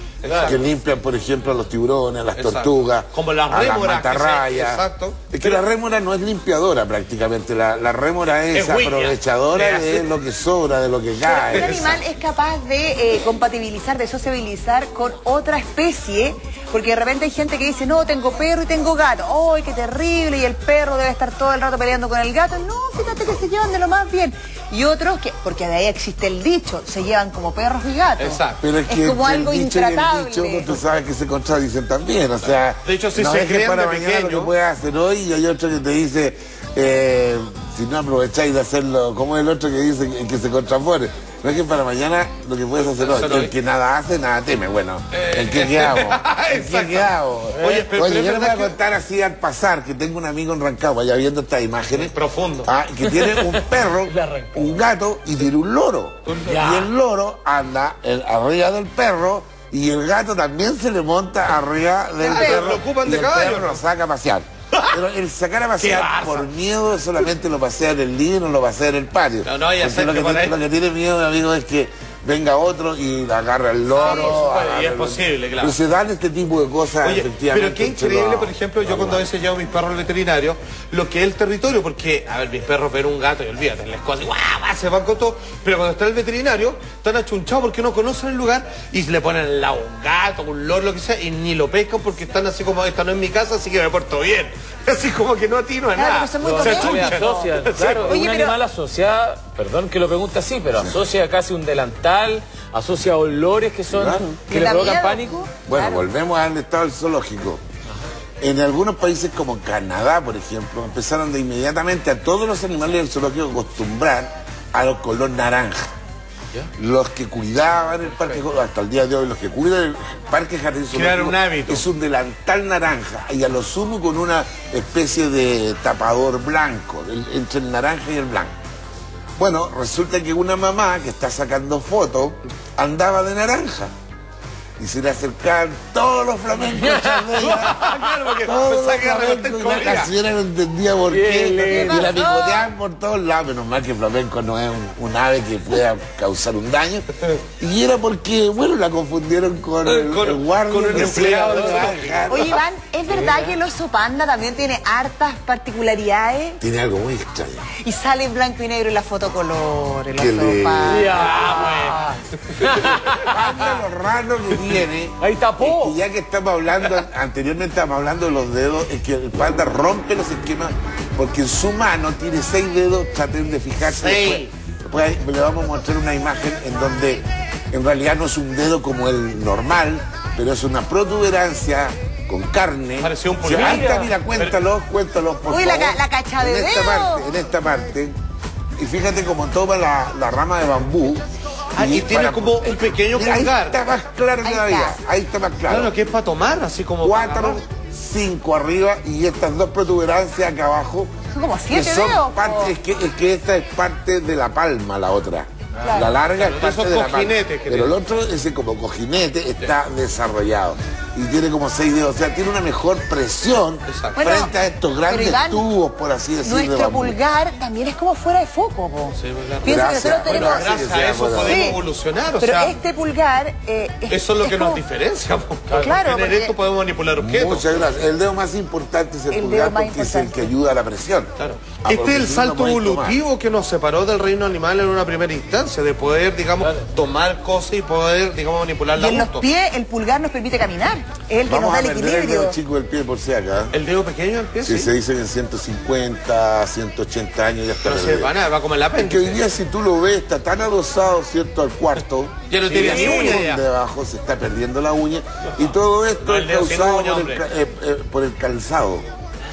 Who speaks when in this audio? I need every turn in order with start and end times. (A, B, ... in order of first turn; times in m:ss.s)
0:00.2-0:00.7 A
0:00.2-0:00.6 B
0:00.4-0:12.0 C
0:02.4-0:05.6 A
0:08.5-0:10.1 A
0:11.2-0:30.7 D
0:11.5-0:12.0 A
0:28.2-0:28.6 A
0:28.6-0:52.1 C
0:32.8-0:34.5 A
0:43.0-0:43.5 A
0:45.1-0:48.8 A
0:47.6-0:47.9 B
0:51.9-0:52.7 A
0:52.6-1:19.3 C
0:53.1-0:54.8 B
0:56.2-0:56.6 A
0:56.5-0:56.9 B
1:02.2-1:02.7 D
1:02.2-1:03.8 A
1:05.8-1:06.5 A
1:09.4-1:10.6 A
1:13.9-1:15.8 A
1:17.0-1:38.1 A
1:36.0-1:38.6 D
1:36.4-1:45.3 B
1:43.9-1:44.3 C
1:44.1-1:46.0 D
1:45.7-1:47.6 C
1:48.4-1:55.9 C
1:56.8-2:08.6 C
1:58.1-1:58.4 A
2:00.9-2:01.8 A
2:09.4-2:13.9 C
2:14.8-2:17.8 C
2:16.8-2:18.2 B
2:17.4-2:20.1 A
2:18.4-2:32.6 C
2:21.1-2:22.1 B
2:21.6-2:22.7 D
2:29.8-2:32.2 A
2:30.9-2:32.0 B
2:32.3-2:36.6 D
2:33.1-2:33.6 B
2:36.6-2:37.6 C
2:37.8-2:41.8 D
2:40.2-2:41.1 C
2:40.9-2:43.8 B
2:41.2-2:43.0 A
2:43.1-3:08.2 C
2:45.2-2:46.0 B
2:53.9-2:54.5 A
3:03.0-3:03.9 A
3:03.5-3:04.1 B
3:05.5-3:07.3 D
3:08.8-3:15.9 C
3:11.8-3:13.9 A
3:14.4-3:15.0 D
3:15.7-3:17.6 A
3:17.0-3:21.1 C
3:21.3-3:22.8 D
3:21.7-3:37.2 C
3:25.8-3:26.1 D
3:26.2-3:28.0 A
3:33.9-3:34.2 A
3:34.2-3:34.5 D
3:35.1-3:35.7 D
3:36.4-3:40.6 D
3:39.2-3:42.8 A
3:39.6-3:41.7 C
3:41.4-3:41.8 D
3:42.4-3:44.8 D
3:44.1-3:47.7 A
3:45.7-3:45.9 B
3:45.8-3:46.5 D
3:47.2-3:53.2 C
3:49.3-3:50.5 D
3:51.4-3:59.5 A
3:56.6-3:56.9 B
3:58.9-4:02.6 D
4:01.5-4:03.7 C
4:03.7-4:04.9 A
4:04.6-4:08.3 C
4:07.8-4:09.4 A
4:09.0-4:19.0 C
4:12.5-4:13.6 A
4:12.7-4:13.4 B
4:16.2-4:17.4 A